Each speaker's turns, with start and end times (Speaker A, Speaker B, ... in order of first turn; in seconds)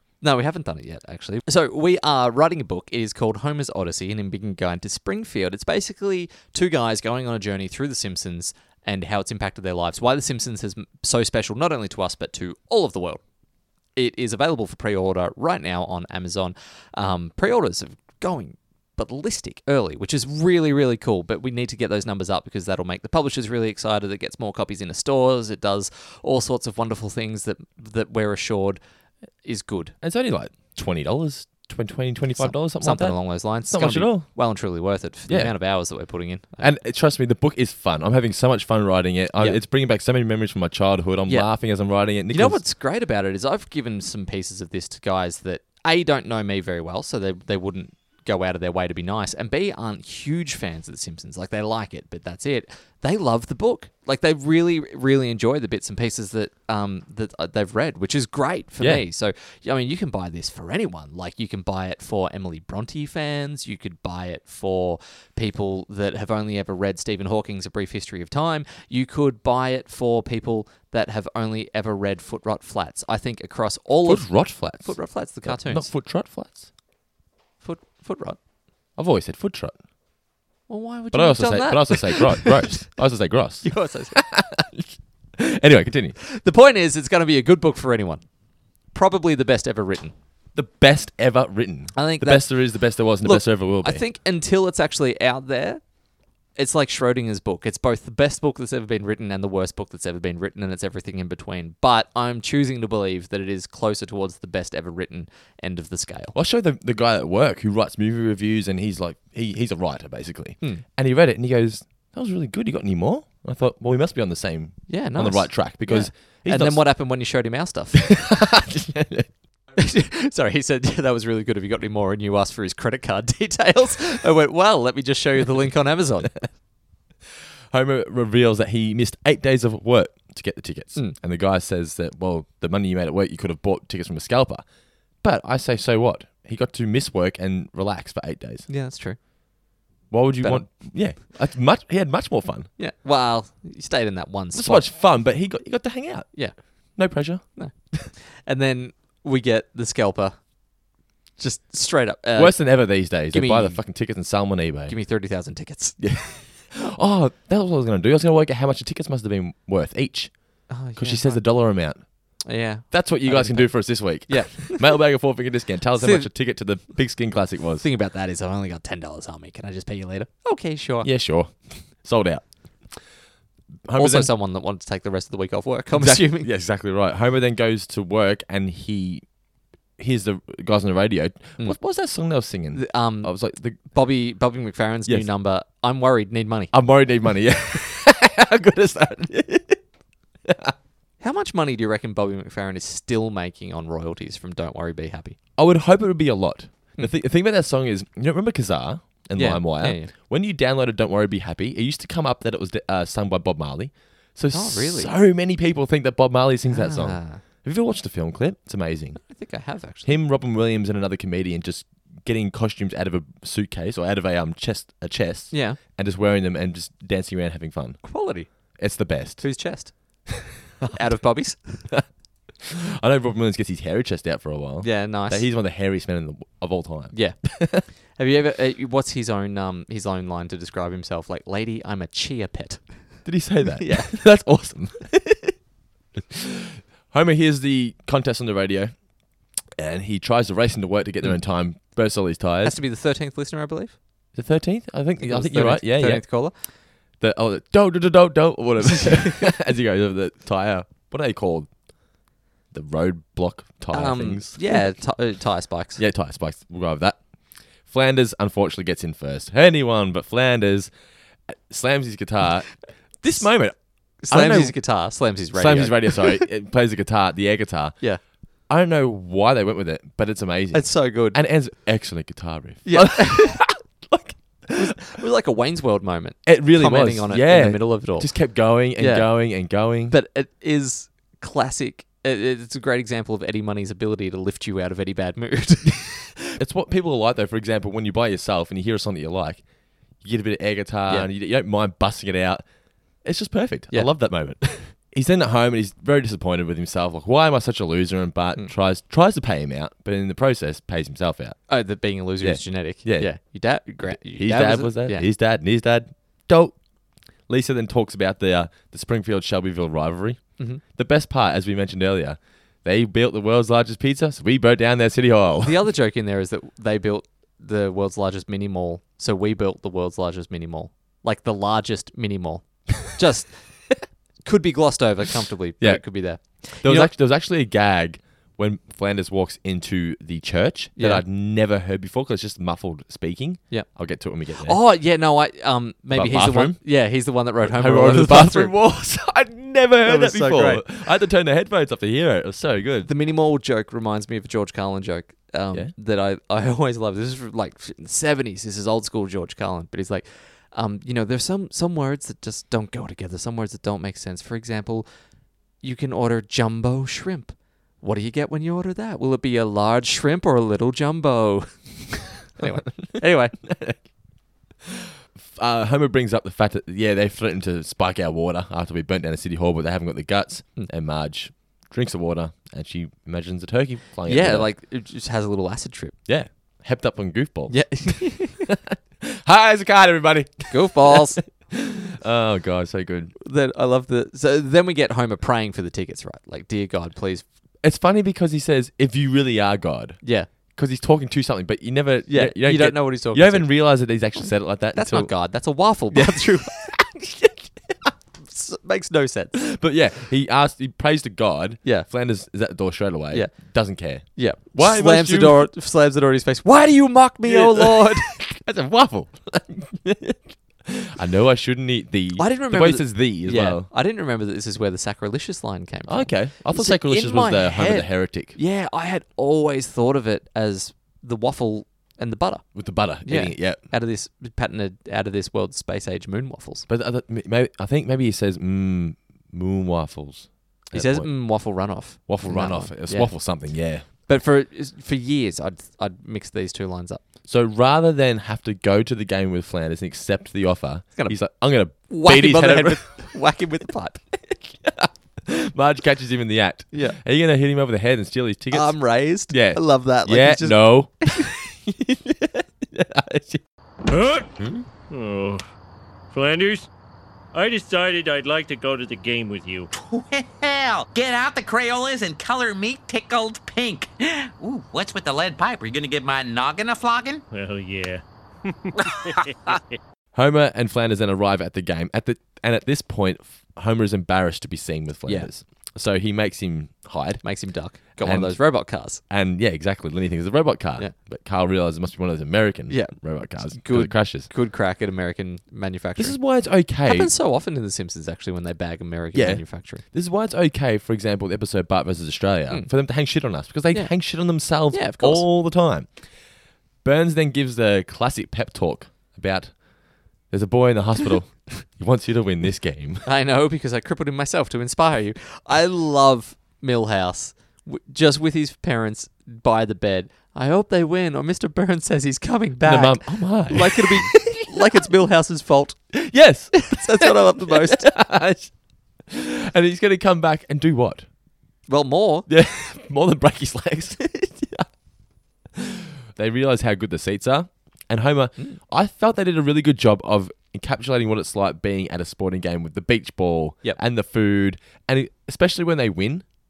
Speaker A: 0.2-13.2, 13.9-28.8, 29.4-29.9, 32.4-36.7, 41.3-41.5, 42.3-75.9, 77.6-78.4, 80.7-82.9, 83.6-84.2, 86.2-88.2, 88.9-90.1, 91.9-92.6, 93.2-95.8, 96.5-106.3, 114.9-118.1, 119.8-126.4, 138.7-139.2, 140.4-140.7, 142.8-144.9, 146.3-147.0, 147.5-150.4, 151.4-153.8, 154.9-156.0, 160.7-161.4, 162.4-164.9, 165.9-166.3, 167.8-171.1, 173.9-176.5, 182.7-186.7, 191.2-195.4, 199.3-200.1, 204.5-205.1, 206.7-207.4, 209.2-210.1, 215.5-215.8, 218.0-218.8, 219.4-220.3, 220.9-221.9, 224.8-225.5, 227.1-233.2, 233.8-234.2, 242.6-244.0, 245.2-246.5, 248.8-249.4, 253.9-256.0, 264.2-266.4, 270.7-271.4, 272.8-273.6, 274.7-278.3, 278.9-279.3, 280.1-286.4, 301.7-305.3, 315.6-323.6, 324.4-327.1, 330.9-331.2, 334.6-338.7, 340.0-340.9, 343.0-355.1, 355.8-363.5, 374.2-376.1, 377.7-378.6, 380.7-381.4, 383.4-387.4, 390.2-390.5, 392.3-393.7, 394.9-396.8, 398.4-399.5, 404.1-408.3, 412.3-426.9, 430.9-433.3, 434.1-437.2, 442.0-444.2, 446.9-447.2, 448.7-451.5, 477.4-479.2, 482.9-486.4, 487.0-490.0, 493.9-495.5, 503.2-516.0, 516.7-518.1, 521.9-522.5
Speaker B: 30.0-34.3, 35.3-35.5, 36.6-42.6, 74.0-76.7, 79.0-79.8, 81.1-86.2, 90.5-94.0, 106.3-116.8, 117.9-119.3, 127.7-134.6, 135.2-138.7, 140.1-142.7, 144.5-148.1, 152.3-154.9, 156.0-162.0, 162.9-167.8, 171.0-173.0, 173.8-174.3, 175.9-179.2, 180.0-183.9, 186.7-189.8, 190.4-190.7, 195.6-209.2, 210.0-219.5, 222.6-227.8, 233.2-235.6, 236.2-238.9, 239.8-242.8, 244.3-246.4, 247.2-251.7, 252.7-255.0, 255.9-257.2, 257.8-260.9, 261.5-264.8, 265.5-268.0, 268.7-275.0, 276.4-280.1, 286.6-289.6, 290.2-292.6, 293.2-301.6, 302.4-303.3, 304.0-306.8, 307.5-315.8, 325.8-334.8, 336.1-336.9, 337.6-343.1, 362.6-364.0, 365.4-374.7, 376.3-383.3, 387.8-395.4, 396.1-398.1, 399.5-405.7, 407.4-413.9, 416.1-418.6, 422.7-423.8, 426.9-434.0, 437.5-443.2, 444.4-453.6, 454.6-454.8, 470.3-477.4, 478.2-478.6, 479.3-484.5, 486.2-487.3, 489.3-496.1, 497.0-499.8, 500.5-503.2, 512.8-514.8, 516.1-518.7, 519.2-521.3, 522.5-524.9, 525.7-536.5
Speaker C: 454.1-454.5, 455.1-455.6, 456.3-456.9, 457.5-459.9, 467.5-469.8
Speaker D: 460.0-467.4